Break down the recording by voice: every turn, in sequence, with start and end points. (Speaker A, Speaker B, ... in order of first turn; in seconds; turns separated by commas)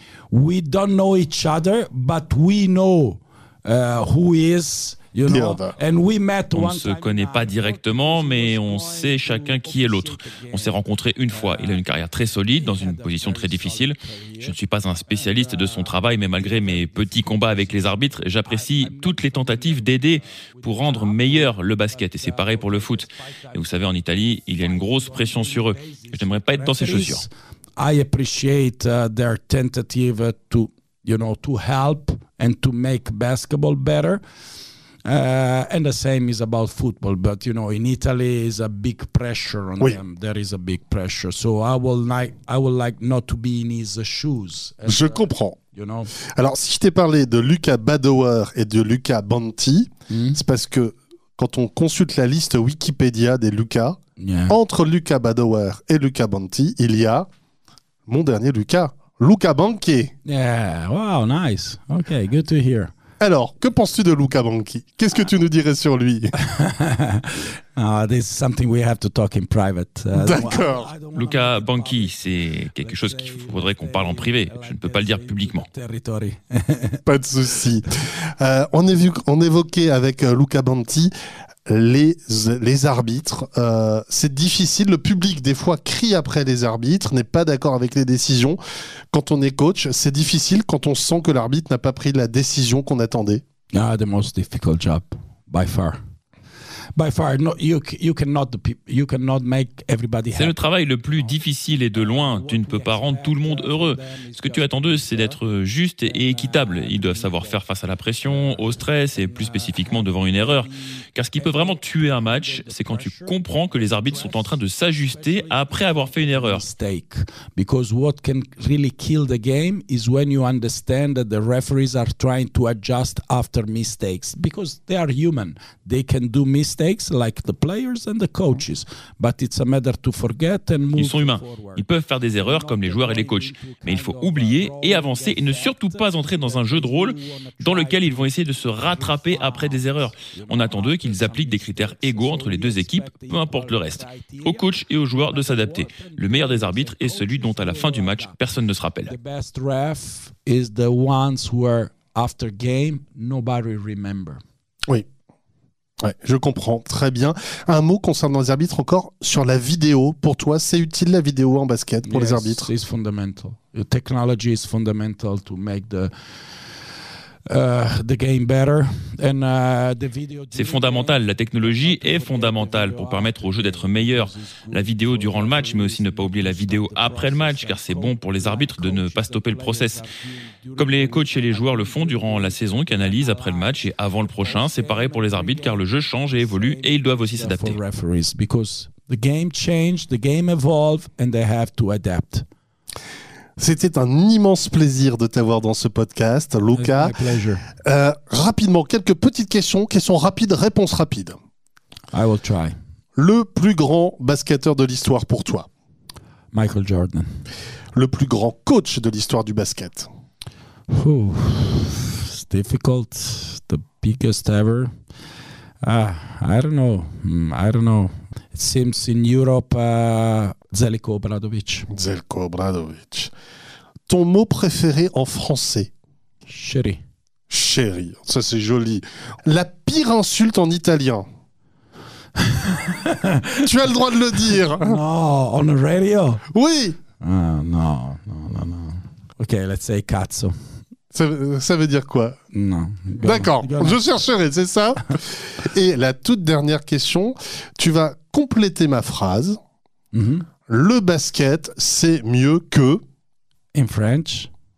Speaker A: 0.3-11.8, Speaker B: 5.3-5.8, Speaker C: 6.5-27.3, Speaker A: 12.5-14.6, Speaker A: 15.1-34.2, Speaker A: 35.0-46.1, Speaker B: 44.9-45.6, Speaker B: 46.4-57.3, Speaker A: 50.1-50.4, Speaker A: 54.2-54.6, Speaker B: 58.1-60.1, Speaker A: 60.2-62.9, Speaker B: 63.2-66.3, Speaker A: 66.4-72.2, Speaker B: 70.1-70.9, Speaker C: 71.2-75.7, Speaker A: 72.8-77.0, Speaker B: 77.1-81.1, Speaker B: 81.7-88.6, Speaker B: 89.1-93.4, Speaker A: 93.7-96.0, Speaker A: 97.0-100.6, Speaker C: 100.3-116.7, Speaker A: 102.0-105.4, Speaker A: 106.0-107.6, Speaker A: 108.2-131.8, Speaker C: 131.0-149.1, Speaker A: 132.4-138.3, Speaker A: 138.8-148.4, Speaker A: 149.1-154.4, Speaker B: 156.0-162.7, Speaker A: 162.0-166.1, Speaker A: 167.5-192.5, Speaker C: 170.5-180.0, Speaker C: 180.8-187.8, Speaker B: 193.6-197.2, Speaker A: 196.7-197.7, Speaker B: 197.8-201.4, Speaker A: 202.1-202.8, Speaker B: 203.2-205.7, Speaker A: 206.5-207.4, Speaker B: 207.9-210.1, Speaker A: 210.9-214.9, Speaker A: 215.8-221.9, Speaker B: 221.9-223.3, Speaker B: 224.1-225.9, Speaker A: 226.5-227.0, Speaker B: 227.5-231.3, Speaker A: 232.4-233.7, Speaker B: 233.6-235.0, Speaker A: 234.4-236.4, Speaker B: 236.5-237.0, Speaker A: 237.2-240.6, Speaker B: 241.1-242.4, Speaker A: 242.5-244.1, Speaker B: 243.2-249.6, Speaker A: 250.1-250.5, Speaker B: 250.7-253.0, Speaker A: 253.7-254.5